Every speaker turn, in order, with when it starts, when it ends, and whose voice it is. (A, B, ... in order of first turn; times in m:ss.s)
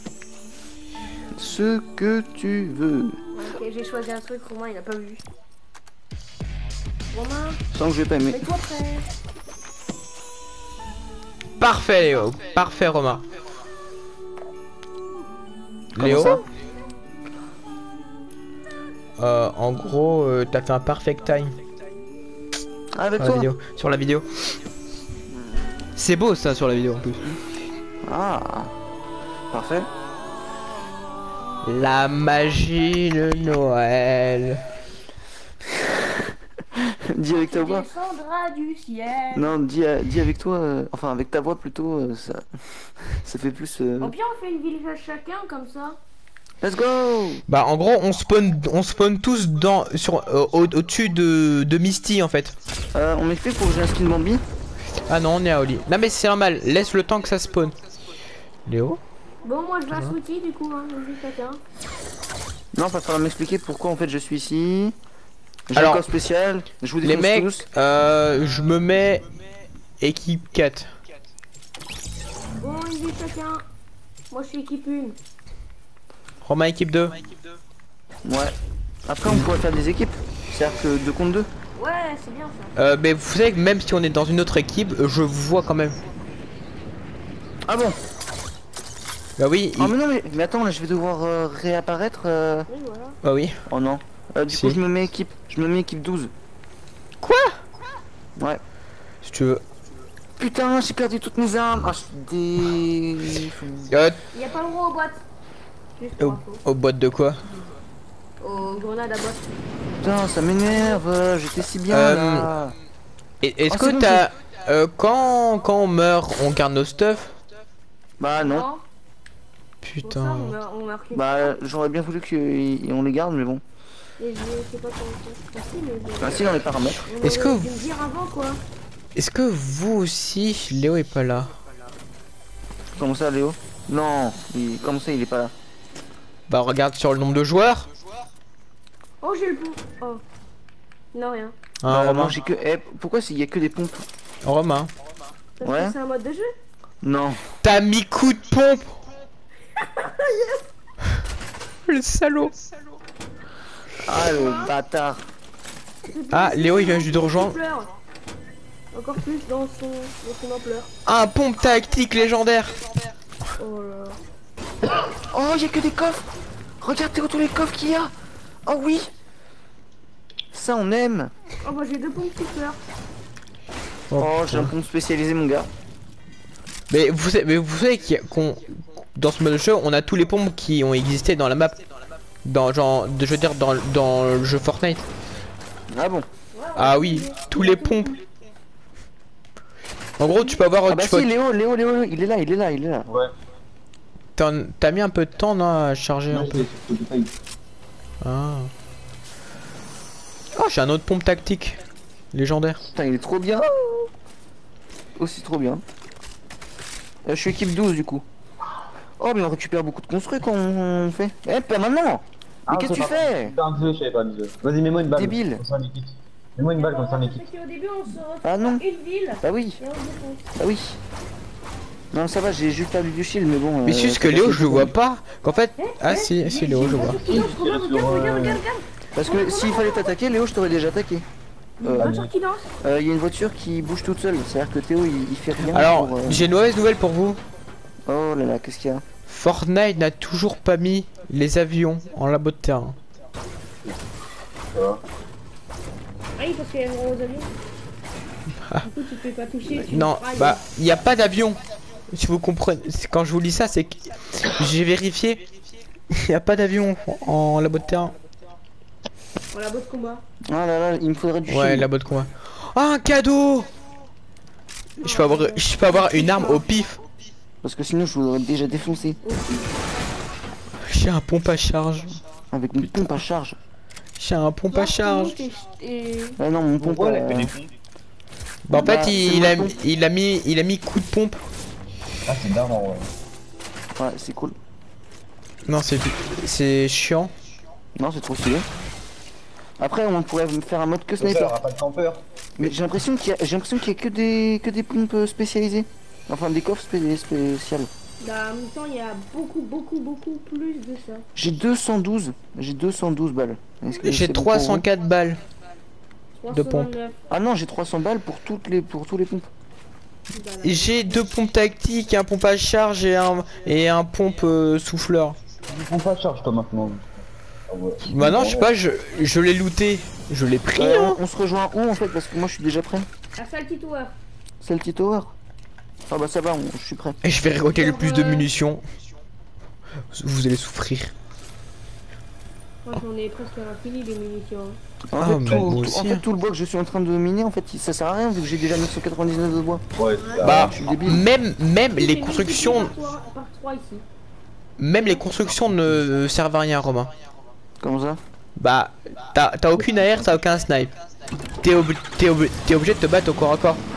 0:01.3-0:03.2 A
0:03.3-0:05.2 B
0:07.1-0:07.6 B
0:07.7-0:08.4 A
0:08.3-0:09.1 B
0:11.6-0:13.2 C
0:15.9-0:16.4 C
0:16.0-0:16.4 A
0:19.2-0:21.5 C
0:22.9-0:23.5 A
0:23.2-0:24.4 C
0:26.0-0:27.3 C
0:28.0-0:28.7 A
0:29.5-0:29.9 A
0:31.6-0:34.6 C
0:35.8-0:37.9 A
0:37.3-0:39.5 B
0:39.3-0:44.1 A
0:44.0-0:46.0 B
0:46.6-0:47.4 A
0:47.5-0:52.5 C
0:52.9-0:54.4 A
0:55.1-0:57.7 C
0:58.7-0:59.0 C
0:59.4-1:01.6 B
1:02.7-1:04.9 A
1:05.7-1:07.6 A
1:05.7-1:06.0 C
1:07.0-1:09.2 C
1:10.0-1:10.9 C
1:12.6-1:13.6 B
1:14.3-1:15.2 B
1:16.4-1:17.2 C
1:18.2-1:18.5 A
1:19.1-1:21.5 A
1:21.8-1:22.7 B
1:22.8-1:26.0 C
1:27.6-1:28.0 A
1:29.4-1:29.9 C
1:29.8-1:32.7 A
1:32.7-1:33.2 B
1:33.2-1:33.6 C
1:33.7-1:36.3 A
1:34.5-1:34.8 C
1:37.2-1:37.6 C
1:39.2-1:39.6 C
1:40.4-1:43.9 A
1:43.9-1:44.2 C
1:44.3-1:45.2 B
1:46.0-1:46.6 B
1:46.2-1:47.4 C
1:48.4-1:49.5 B
1:50.0-1:52.7 A
1:50.7-1:51.0 B
1:51.9-1:52.5 C
1:53.4-1:57.3 C
1:53.7-1:54.2 A
1:58.2-1:58.7 A
1:58.4-1:58.8 B
1:59.8-2:00.6 C
2:00.0-2:01.6 B
2:01.1-2:03.6 A
2:04.2-2:08.6 B
2:06.2-2:07.1 A
2:07.2-2:07.7 C
2:09.2-2:11.5 C
2:13.0-2:15.5 A
2:16.5-2:17.9 C
2:19.2-2:20.2 B
2:21.1-2:21.5 B
2:21.8-2:22.4 C
2:21.9-2:24.1 A
2:24.4-2:24.9 C
2:25.6-2:26.5 B
2:25.6-2:25.9 A
2:27.0-2:27.4 A
2:27.6-2:29.0 C
2:29.8-2:30.6 B
2:31.9-2:32.5 C
2:34.0-2:35.3 A
2:34.1-2:34.7 B
2:36.1-2:37.9 B
2:36.3-2:37.6 C
2:38.9-2:40.9 B
2:41.0-2:42.7 C
2:43.6-2:44.2 B
2:45.3-2:46.3 A
2:46.8-2:48.1 A
2:48.6-2:49.1 A
2:50.5-2:51.3 A
2:51.6-2:52.8 B
2:54.1-2:54.7 C
2:54.2-2:55.7 A
2:56.9-3:01.8 C
3:02.4-3:05.0 C
3:05.9-3:06.3 A
3:06.5-3:08.1 B
3:06.8-3:08.1 C
3:10.2-3:11.3 C
3:10.9-3:13.1 A
3:14.4-3:16.7 C
3:16.3-3:17.3 D
3:18.2-3:18.7 C
3:20.5-3:21.8 C
3:22.3-3:22.8 C
3:22.9-3:24.1 A
3:25.2-3:25.8 A
3:27.2-3:28.2 A
3:29.2-3:33.5 A
3:32.7-3:37.4 D
3:35.1-3:35.6 A
3:36.7-3:40.5 B
3:38.4-3:38.8 A
3:39.4-3:39.8 A
3:40.6-3:41.0 A
3:42.1-3:44.9 A
3:43.8-3:47.2 C
3:45.8-3:50.1 B
3:47.2-3:48.6 D
3:49.1-3:51.2 A
3:51.8-3:52.7 B
3:51.8-3:52.2 A
3:52.0-3:52.3 D
3:52.8-3:56.5 A
3:55.6-3:57.4 C
3:58.0-3:59.0 A
3:59.3-4:03.0 C
4:04.7-4:05.0 D
4:06.4-4:07.5 B
4:08.6-4:08.9 C
4:08.8-4:10.6 B
4:09.7-4:11.6 C
4:12.1-4:15.4 C
4:16.1-4:18.1 C
4:19.5-4:20.2 B
4:20.4-4:21.9 A
4:21.5-4:23.7 C
4:25.0-4:27.0 C
4:25.0-4:26.6 B
4:27.6-4:29.2 A
4:29.2-4:29.8 B
4:30.8-4:32.2 C
4:32.5-4:33.6 A
4:32.8-4:33.2 C
4:34.2-4:35.4 C
4:34.7-4:36.4 B
4:36.4-4:37.5 A
4:36.8-4:37.7 D
4:38.6-4:41.4 C
4:38.7-4:39.7 A
4:42.3-4:43.1 D
4:44.0-4:44.6 A
4:45.6-4:47.3 C
4:48.0-4:48.6 A
4:49.8-4:51.6 A
4:51.2-4:52.2 D
4:52.6-4:57.9 A
4:58.2-5:01.3 B
5:01.4-5:04.8 A
5:04.0-5:05.4 C
5:06.4-5:07.2 B
5:06.5-5:06.9 C
5:07.3-5:09.5 A
5:10.3-5:10.9 B
5:10.6-5:15.4 C
5:15.7-5:18.7 D
5:18.0-5:21.2 C
5:20.8-5:23.1 A
5:23.4-5:24.2 B
5:24.6-5:25.3 A
5:26.1-5:27.2 A
5:27.2-5:28.8 C
5:27.7-5:28.5 B
5:30.1-5:31.1 C
5:32.8-5:34.8 B
5:35.1-5:39.8 A
5:35.2-5:36.2 C
5:35.4-5:35.8 D
5:40.0-5:40.9 D
5:40.2-5:40.6 B
5:40.4-5:42.9 C
5:40.5-5:41.2 A
5:42.0-5:44.0 B
5:44.8-5:47.1 C
5:47.8-5:48.2 A
5:48.6-5:50.9 C
5:51.6-5:53.8 C